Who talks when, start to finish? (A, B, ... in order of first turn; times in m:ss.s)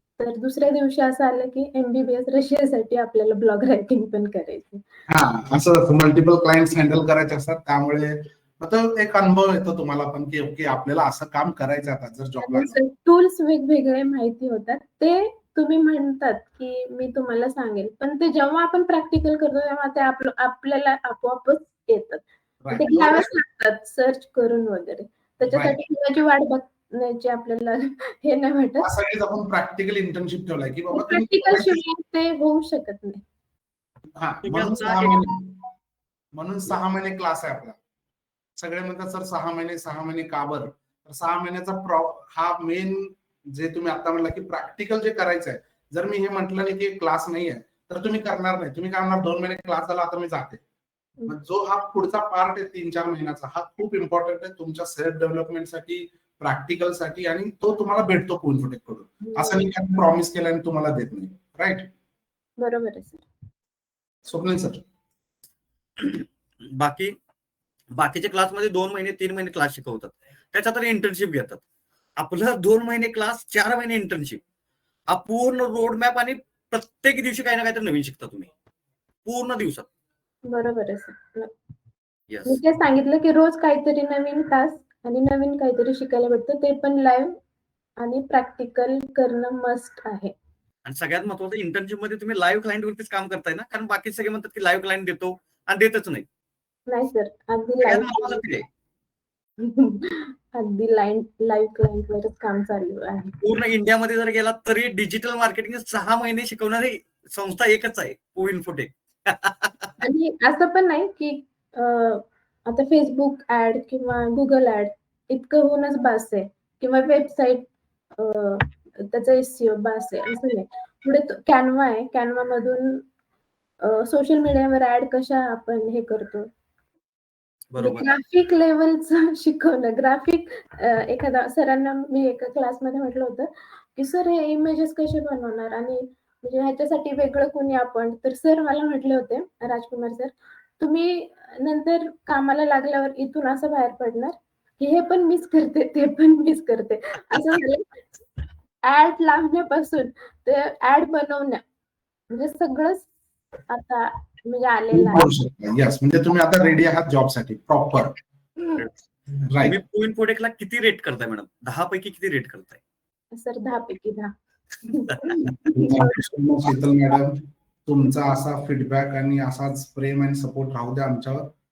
0:00.2-0:04.8 A
0:05.1-0:12.8 B
0:12.4-0:28.9 A
0:22.6-0:23.3 B
0:25.5-0:25.8 B
0:28.8-0:31.8 B
0:30.9-0:33.2 A
0:34.2-0:35.6 B
0:34.4-0:35.2 C
0:36.3-0:37.8 B
0:38.6-0:50.6 B
0:51.3-1:01.9 B
0:59.2-0:59.7 A
1:02.6-1:03.2 A
1:04.2-1:04.8 B
1:06.0-1:06.2 C
1:06.8-1:07.1 C
1:08.0-1:11.6 C
1:12.2-1:14.4 C
1:15.1-1:18.5 C
1:19.2-1:19.9 C
1:20.4-1:21.5 A
1:22.3-1:22.6 C
1:22.4-1:27.3 A
1:28.0-1:30.3 A
1:30.8-1:36.2 C
1:36.9-1:38.5 A
1:37.8-1:38.6 C
1:39.6-1:43.4 A
1:43.4-1:49.9 C
1:50.0-2:03.0 A
2:03.8-2:06.5 A
2:07.7-2:08.1 C
2:07.8-2:28.2 A
2:27.3-2:27.6 C
2:28.8-2:31.6 A
2:32.3-2:33.1 A
2:33.7-2:35.3 A
2:34.9-2:38.2 B
2:39.5-2:39.8 B
2:39.6-2:42.8 C
2:43.3-2:44.3 A
2:44.8-2:46.2 A
2:45.1-2:45.4 C
2:45.6-2:51.5 B